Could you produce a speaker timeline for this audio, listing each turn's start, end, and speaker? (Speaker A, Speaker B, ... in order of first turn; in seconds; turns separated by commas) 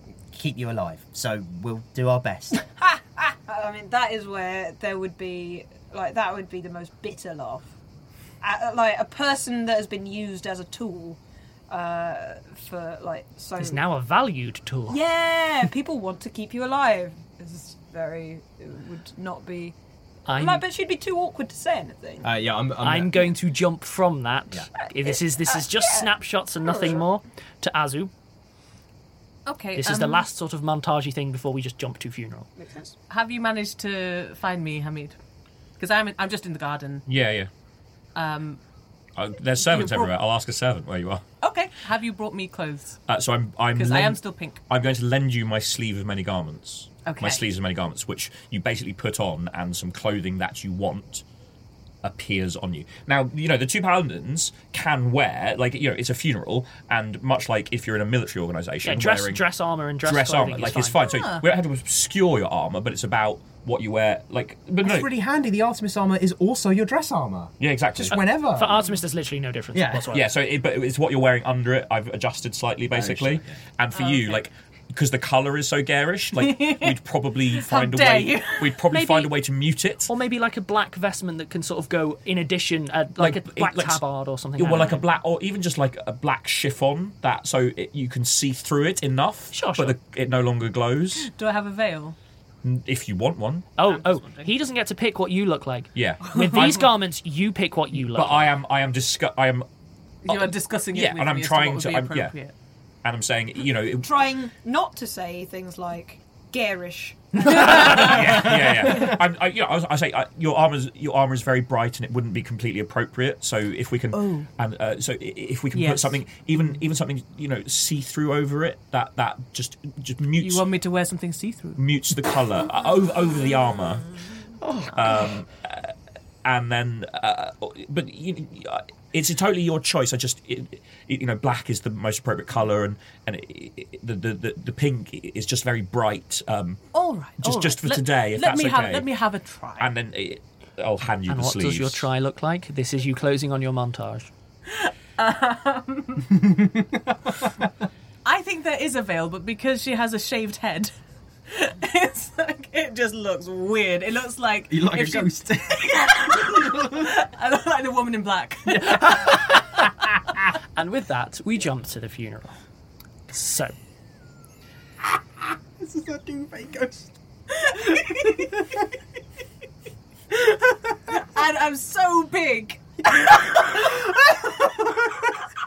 Speaker A: 0.3-2.6, Speaker B: 2.6-7.7, Speaker B: 8.4-13.8, Speaker C: 13.6-15.0, Speaker B: 14.9-19.8, Speaker C: 20.3-20.6, Speaker B: 20.3-22.3, Speaker D: 22.2-23.3, Speaker C: 22.8-28.1, Speaker B: 25.0-26.1, Speaker B: 26.7-27.0, Speaker E: 29.4-30.2, Speaker C: 29.7-32.5, Speaker B: 32.6-32.9, Speaker E: 33.1-35.2, Speaker E: 35.8-37.0, Speaker F: 37.1-37.5, Speaker E: 38.1-38.6, Speaker F: 39.1-41.2, Speaker E: 39.6-40.1, Speaker E: 41.4-43.0, Speaker F: 43.1-51.2, Speaker E: 43.7-44.6, Speaker E: 47.0-47.4, Speaker F: 52.0-59.4, Speaker C: 58.8-61.0, Speaker F: 60.0-65.1, Speaker E: 61.0-61.4, Speaker D: 64.8-68.8, Speaker F: 67.6-68.3, Speaker C: 68.1-70.3, Speaker D: 69.7-70.1, Speaker F: 70.1-80.1, Speaker D: 72.9-73.5, Speaker E: 73.9-74.4, Speaker E: 76.3-78.8, Speaker C: 78.9-79.3, Speaker C: 80.1-85.0, Speaker F: 83.2-84.0, Speaker F: 84.5-91.3, Speaker C: 89.5-90.0, Speaker E: 91.2-92.2, Speaker F: 92.6-93.7, Speaker C: 93.8-98.5, Speaker E: 93.8-94.5, Speaker F: 95.9-96.9, Speaker E: 96.2-96.6, Speaker F: 98.0-99.7, Speaker E: 100.2-102.5, Speaker F: 100.2-102.3, Speaker F: 103.0-104.1, Speaker B: 104.0-108.5, Speaker F: 107.4-120.7, Speaker E: 107.8-108.2, Speaker E: 114.1-114.5, Speaker E: 115.7-116.2, Speaker E: 120.4-121.8, Speaker F: 121.8-124.1, Speaker F: 124.9-125.9, Speaker F: 126.4-136.8, Speaker E: 136.9-139.9, Speaker F: 137.4-139.1, Speaker F: 139.8-142.1, Speaker C: 141.3-144.3, Speaker E: 144.7-146.3, Speaker E: 148.2-150.9, Speaker E: 151.5-159.0, Speaker D: 154.7-157.0, Speaker C: 158.8-159.8, Speaker C: 160.8-162.6, Speaker C: 163.3-163.8, Speaker E: 165.8-168.7, Speaker E: 170.3-174.0